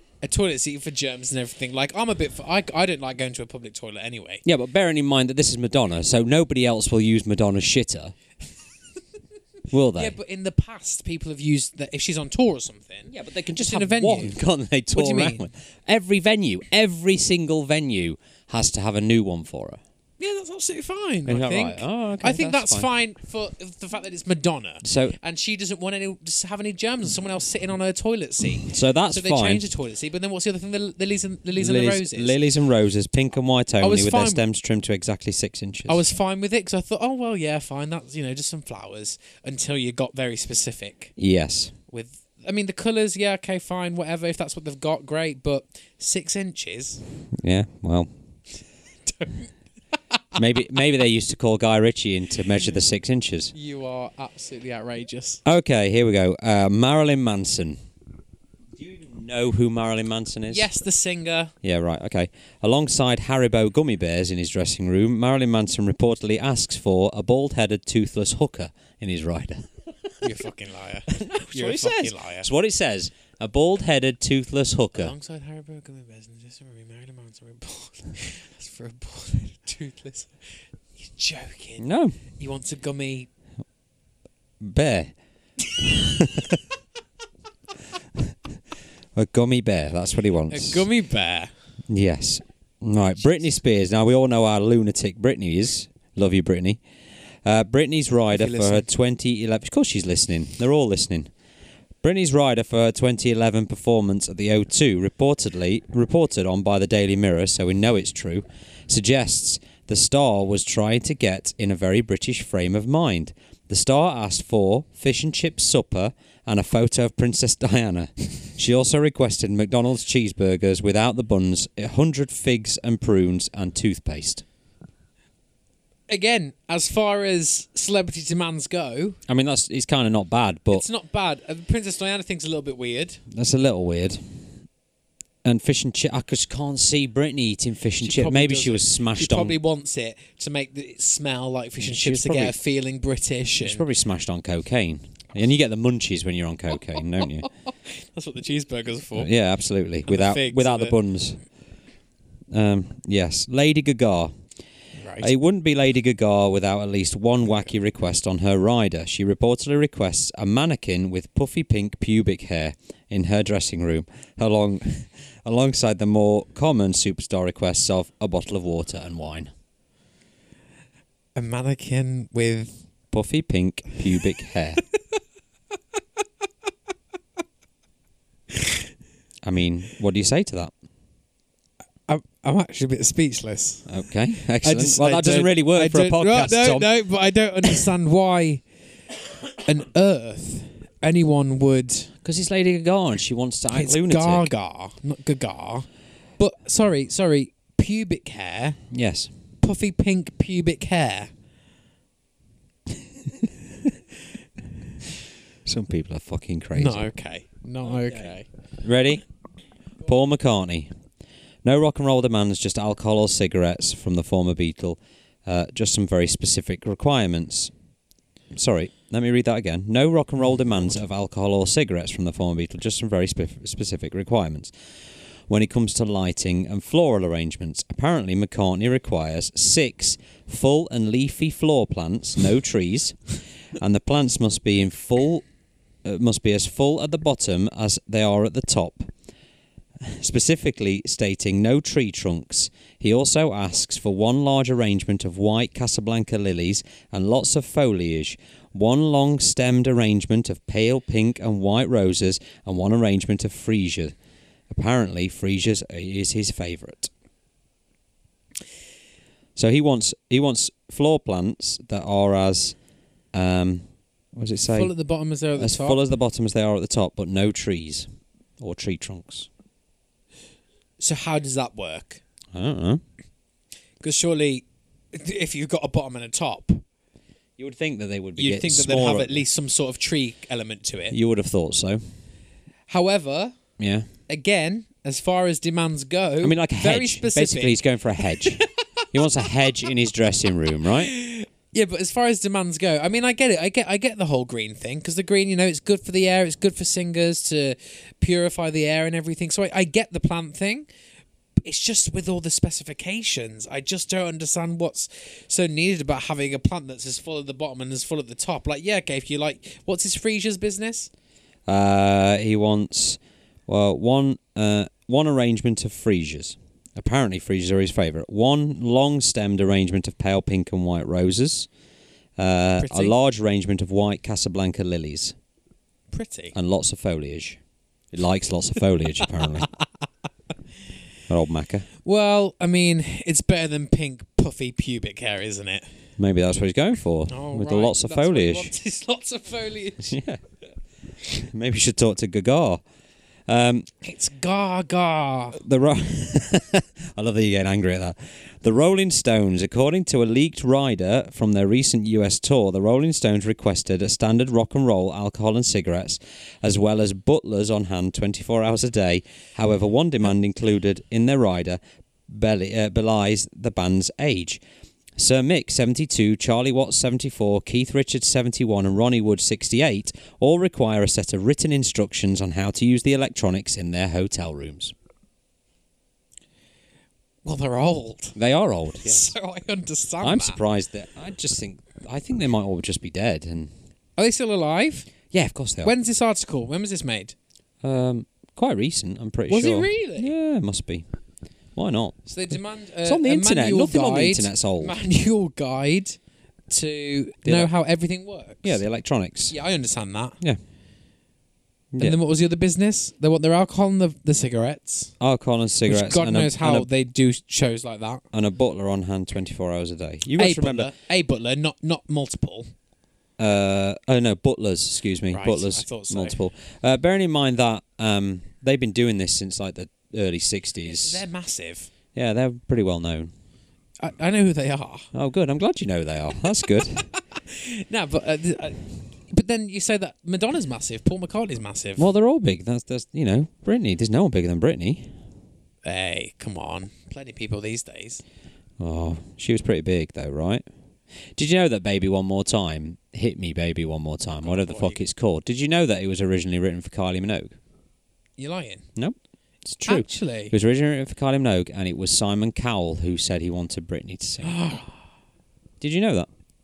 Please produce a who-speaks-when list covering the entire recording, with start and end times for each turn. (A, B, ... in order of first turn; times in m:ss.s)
0:00.2-0:04.4 A
0:04.4-0:08.1 B
0:09.7-0:10.1 B
0:09.9-0:14.4 A
0:13.1-0:19.8 B
0:14.9-0:15.5 A
0:20.2-0:32.4 A
0:21.2-0:22.9 B
0:24.8-0:25.2 B
0:28.7-0:29.6 B
0:31.6-0:36.0 B
0:33.8-0:34.4 A
0:35.9-0:41.1 A
0:41.2-0:41.7 B
0:41.9-0:47.0 A
0:47.3-0:48.1 B
0:49.0-0:49.5 A
0:50.1-0:50.4 A
0:50.4-0:53.5 B
0:53.5-0:55.4 A
0:55.4-0:57.8 B
0:58.8-1:00.6 B
1:00.5-1:01.5 A
1:01.6-1:09.8 B
1:10.2-1:12.5 A
1:11.1-1:15.1 B
1:14.9-1:20.4 A
1:21.0-1:21.8 A
1:21.8-1:22.1 B
1:22.4-1:23.3 A
1:24.6-1:25.1 B
1:25.8-1:26.6 B
1:29.1-1:30.9 B
1:30.5-1:31.5 A
1:31.9-1:36.8 B
1:37.4-1:41.3 B
1:38.3-1:38.9 A
1:42.0-2:04.4 B
2:06.1-2:09.2 A
2:09.3-2:10.8 B
2:10.7-2:13.2 A
2:13.3-2:14.2 B
2:15.4-2:19.6 B
2:18.0-2:23.8 A
2:21.8-2:22.5 B
2:23.6-2:27.5 B
2:27.7-2:29.3 A
2:29.2-2:31.4 B
2:30.1-2:30.9 A
2:32.5-2:34.3 B
2:35.0-2:35.3 A
2:35.2-2:49.5 B
2:51.3-2:52.8 A
2:53.1-2:54.8 B
2:59.4-3:00.7 B
3:02.1-3:03.9 A
3:03.9-3:06.9 B
3:04.6-3:08.6 A
3:09.6-3:12.1 A
3:12.2-3:14.5 B
3:13.7-3:15.9 A
3:16.4-3:18.8 A
3:18.9-3:19.3 B
3:19.6-3:21.3 A
3:25.6-3:27.1 B
3:26.7-3:28.5 A
3:27.9-3:29.2 B
3:30.0-3:30.9 B
3:31.6-3:37.7 B
3:38.5-3:44.7 B
3:45.5-3:53.2 B
3:53.8-3:55.4 B
3:56.0-3:59.1 B
4:00.0-4:14.1 B
4:14.7-4:17.1 B
4:19.6-4:22.8 B
4:23.3-4:24.9 B
4:24.7-4:26.0 A
4:25.6-4:28.1 B
4:28.6-4:29.5 B
4:31.0-4:32.2 A
4:32.5-4:33.0 B
4:34.0-4:36.8 A
4:37.6-4:39.4 B
4:38.4-4:41.1 A
4:41.1-4:42.0 B
4:42.9-4:43.5 A
4:43.8-4:44.1 B
4:44.3-4:47.8 A
4:46.4-4:51.1 B
4:48.4-4:48.6 A
4:50.9-5:00.9 A
5:01.6-5:11.1 A
5:11.7-5:21.7 B
5:22.4-5:25.3 B
5:22.8-5:23.1 A
5:26.1-5:26.5 A
5:26.5-5:27.6 B
5:28.1-5:29.7 B
5:31.3-5:31.9 B
5:32.0-5:35.9 A
5:36.2-5:38.7 B
5:37.3-5:40.2 A
5:40.0-5:40.4 B
5:41.3-5:42.8 B
5:43.5-5:43.9 B
5:44.0-5:45.6 A
5:45.6-6:04.6 B
6:05.2-6:14.9 B
6:17.4-6:18.4 A
6:18.4-6:19.3 B
6:19.0-6:20.6 A
6:20.2-6:23.7 B
6:24.2-6:25.1 A
6:25.3-6:25.9 B
6:25.8-6:27.3 A
6:27.8-6:31.0 B
6:29.5-6:30.3 A
6:31.7-6:32.2 B
6:32.3-6:36.2 A
6:33.0-6:35.0 B
6:36.7-6:38.8 A
6:37.4-6:37.7 B
6:38.6-6:39.5 B
6:39.5-6:40.4 A
6:42.0-6:45.1 A
6:45.2-6:46.9 B
6:45.8-6:48.2 A
6:48.3-6:50.9 B
6:50.3-6:52.7 A
6:53.4-7:01.2 B
6:55.3-6:56.4 A
7:00.9-7:01.9 A
7:02.1-7:03.3 B
7:04.0-7:05.1 A
7:05.1-7:07.0 B
7:07.0-7:12.0 A
7:12.0-7:15.1 B
7:15.8-7:18.2 A
7:18.8-7:20.6 B
7:21.4-7:27.6 B
7:24.4-7:25.0 A
7:28.4-7:28.8 A
7:29.0-7:34.6 B
7:29.8-7:30.5 A
7:34.4-7:35.0 A
7:35.8-7:36.3 B